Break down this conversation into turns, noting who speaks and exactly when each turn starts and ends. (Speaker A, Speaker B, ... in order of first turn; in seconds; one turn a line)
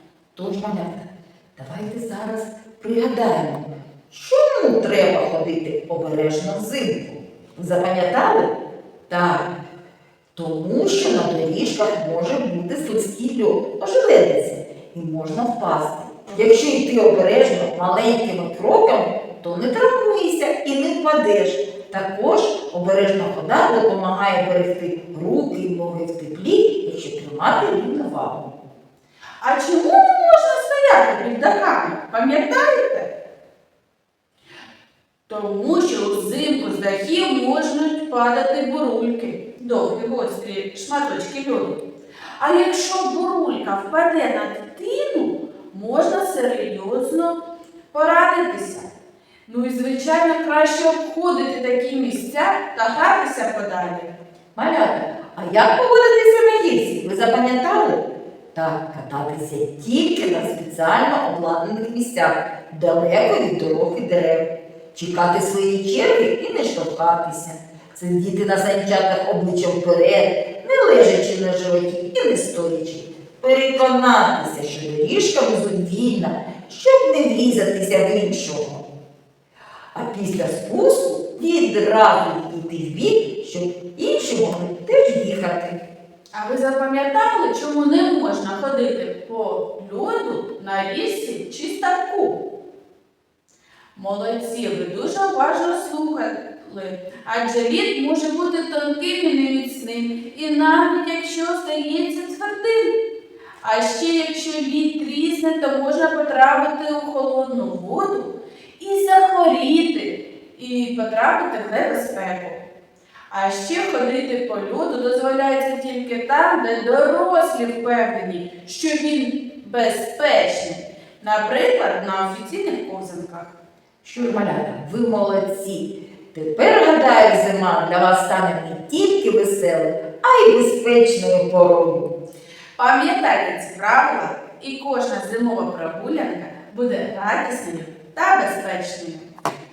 Speaker A: 0.3-8.5
Speaker A: 9.1-9.5
Speaker A: 10.3-28.5
Speaker B: 29.4-33.1
Speaker B: 35.3-41.8
Speaker B: 42.4-47.4
Speaker B: 47.9-48.9
Speaker B: 49.5-54.1
Speaker A: 54.5-58.0
Speaker A: 58.5-78.8
Speaker A: 79.9-85.8
Speaker B: 86.3-92.4
Speaker B: 94.0-103.0
Speaker B: 103.6-112.6
Speaker B: 113.3-123.6
Speaker A: 124.0-132.1
Speaker B: 132.8-139.3